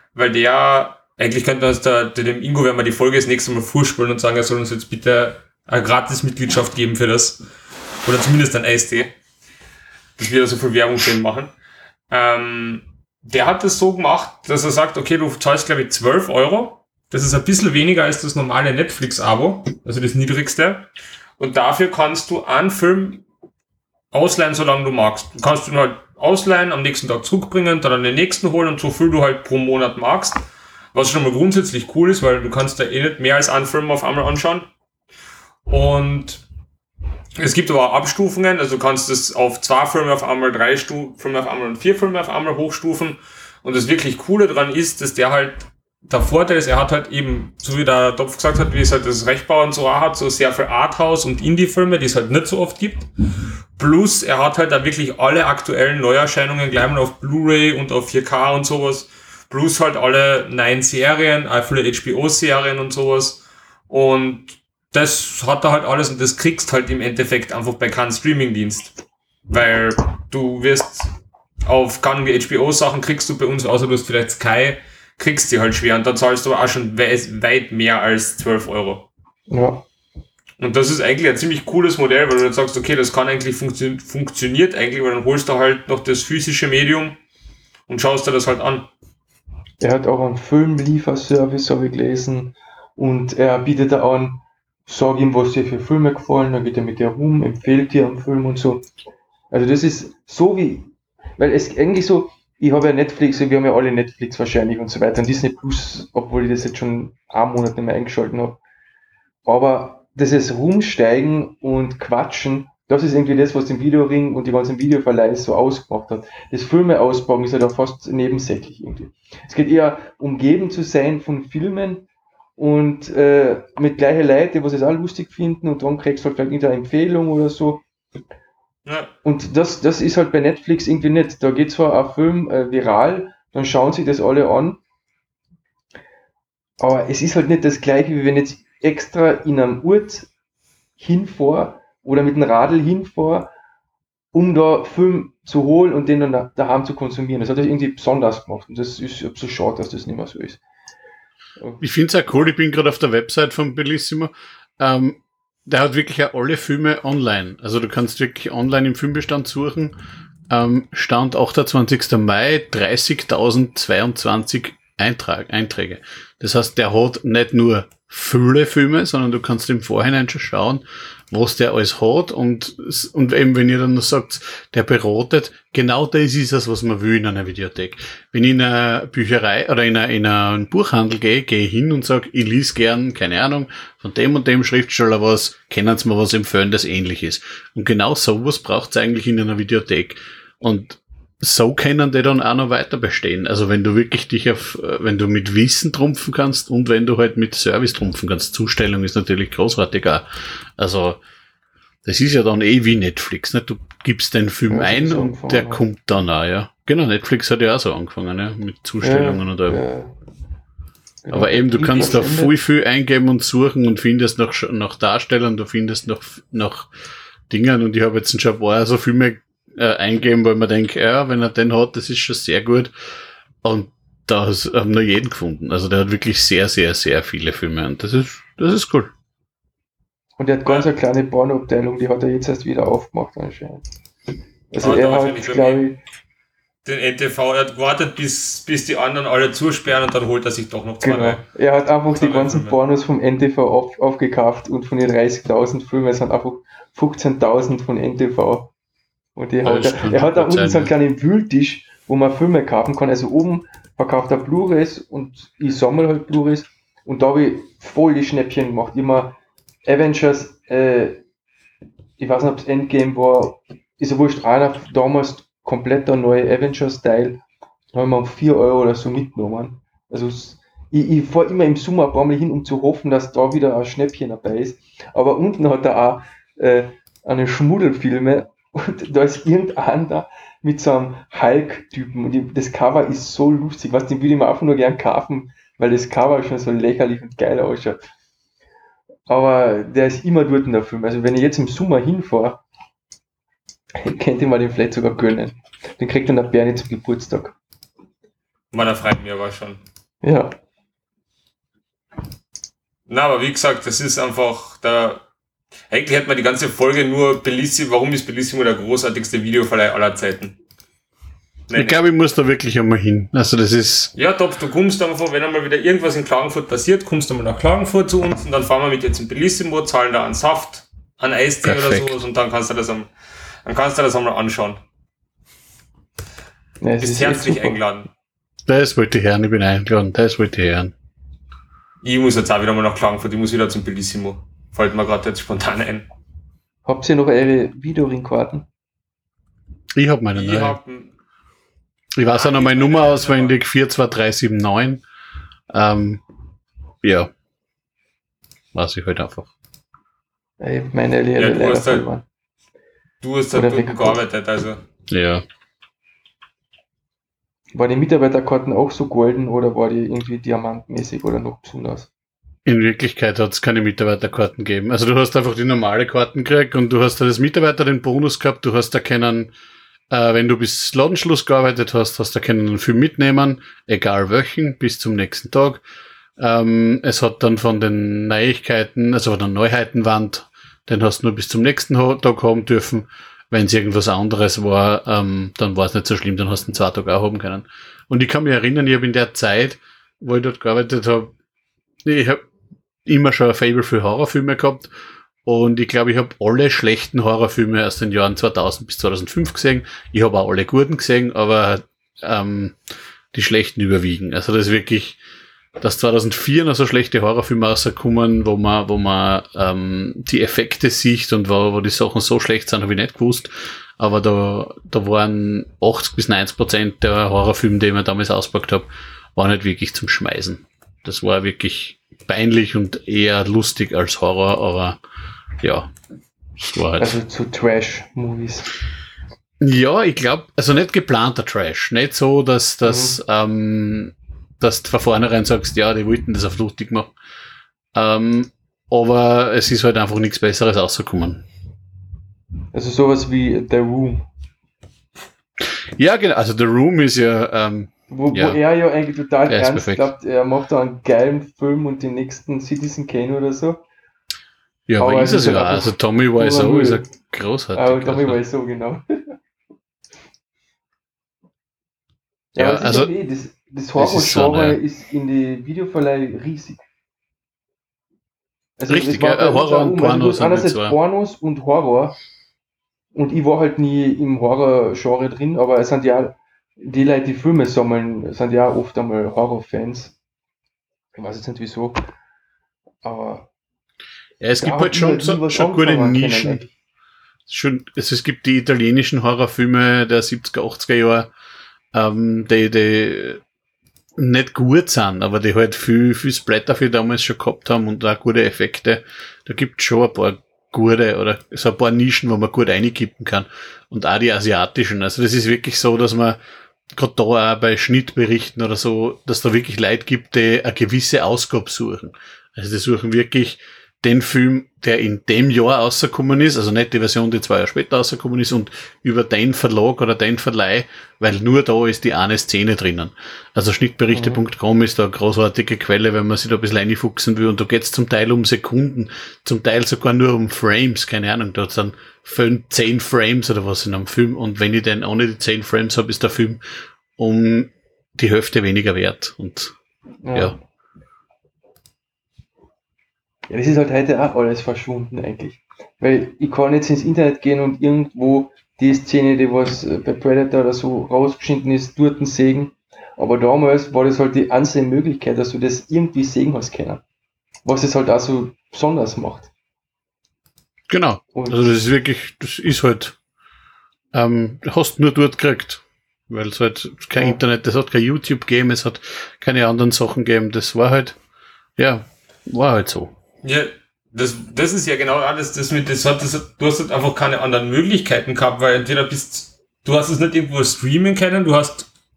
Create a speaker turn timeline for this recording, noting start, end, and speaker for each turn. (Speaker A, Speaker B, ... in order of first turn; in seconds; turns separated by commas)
Speaker A: 0.1-7.4, Speaker A: 8.1-9.1, Speaker A: 10.2-11.5, Speaker A: 12.1-20.9, Speaker A: 21.4-23.2, Speaker A: 24.1-30.4, Speaker A: 30.9-34.7, Speaker A: 35.7-36.4, Speaker A: 37.4-53.1, Speaker A: 53.8-69.0, Speaker A: 69.5-71.1, Speaker A: 71.7-79.1, Speaker B: 79.5-79.8, Speaker A: 80.6-87.2, Speaker A: 87.9-88.9, Speaker B: 89.8-98.9, Speaker B: 99.5-108.6, Speaker B: 109.5-122.1, Speaker B: 122.6-127.8, Speaker A: 128.9-129.1, Speaker B: 129.2-134.8, Speaker B: 136.8-140.3, Speaker B: 141.0-143.5, Speaker B: 144.3-150.6, Speaker C: 151.8-159.9, Speaker C: 160.5-200.2, Speaker C: 200.8-201.2, Speaker C: 202.1-209.8, Speaker B: 204.7-205.8, Speaker B: 209.0-210.1, Speaker B: 211.2-212.5, Speaker C: 211.3-216.9, Speaker C: 217.5-222.9, Speaker C: 223.6-229.1, Speaker B: 230.4-233.8, Speaker B: 234.7-236.0, Speaker A: 234.8-235.8, Speaker A: 236.8-241.4, Speaker B: 241.0-248.7, Speaker A: 242.1-242.8, Speaker B: 249.4-261.2, Speaker C: 249.6-250.9, Speaker B: 262.2-267.4, Speaker B: 267.9-288.1, Speaker B: 289.3-292.6, Speaker B: 294.0-297.6, Speaker A: 298.7-299.8, Speaker B: 300.2-300.6, Speaker A: 303.1-305.2, Speaker A: 305.9-310.6, Speaker A: 311.7-312.0, Speaker C: 311.7-314.1, Speaker A: 314.1-323.1, Speaker C: 321.6-322.2, Speaker A: 323.6-324.8, Speaker B: 326.8-327.8, Speaker A: 327.0-328.1, Speaker C: 328.7-330.9, Speaker A: 332.0-336.1, Speaker B: 336.9-338.7, Speaker C: 340.0-340.8, Speaker A: 340.4-341.1, Speaker C: 342.2-345.0, Speaker A: 342.3-343.6, Speaker C: 345.7-346.2, Speaker C: 347.0-347.3, Speaker C: 348.7-349.5, Speaker B: 350.6-352.2, Speaker A: 351.4-352.1, Speaker A: 353.2-354.8, Speaker B: 353.5-354.2, Speaker C: 355.1-355.4, Speaker B: 357.8-362.1, Speaker C: 362.7-369.5, Speaker C: 370.1-375.8, Speaker C: 376.4-391.3, Speaker C: 392.0-392.4, Speaker C: 393.1-394.9, Speaker C: 395.5-402.8, Speaker C: 403.3-405.2, Speaker C: 405.8-425.0, Speaker C: 425.6-425.9, Speaker C: 426.7-427.2, Speaker B: 427.0-428.7, Speaker C: 429.6-437.1, Speaker B: 432.9-433.2, Speaker C: 437.9-441.4, Speaker B: 442.7-444.3, Speaker C: 446.0-448.6, Speaker B: 448.1-453.8, Speaker C: 449.5-450.1, Speaker C: 454.9-458.4, Speaker B: 455.0-457.1, Speaker B: 457.8-459.4, Speaker B: 462.6-466.9, Speaker C: 462.6-463.1, Speaker C: 464.0-464.8, Speaker B: 468.8-472.2, Speaker C: 468.9-471.0, Speaker B: 473.1-480.2, Speaker B: 481.1-482.0, Speaker B: 483.0-483.5, Speaker C: 484.4-486.6, Speaker B: 484.6-486.7, Speaker C: 487.5-491.3, Speaker C: 491.9-493.4, Speaker C: 494.2-506.4, Speaker C: 507.0-536.6, Speaker B: 524.1-524.4, Speaker C: 537.2-539.7, Speaker B: 540.2-540.6, Speaker B: 543.5-557.0, Speaker B: 557.6-559.5, Speaker C: 560.9-563.2, Speaker B: 561.3-561.7, Speaker C: 564.1-571.2, Speaker C: 571.8-573.1, Speaker A: 573.4-581.9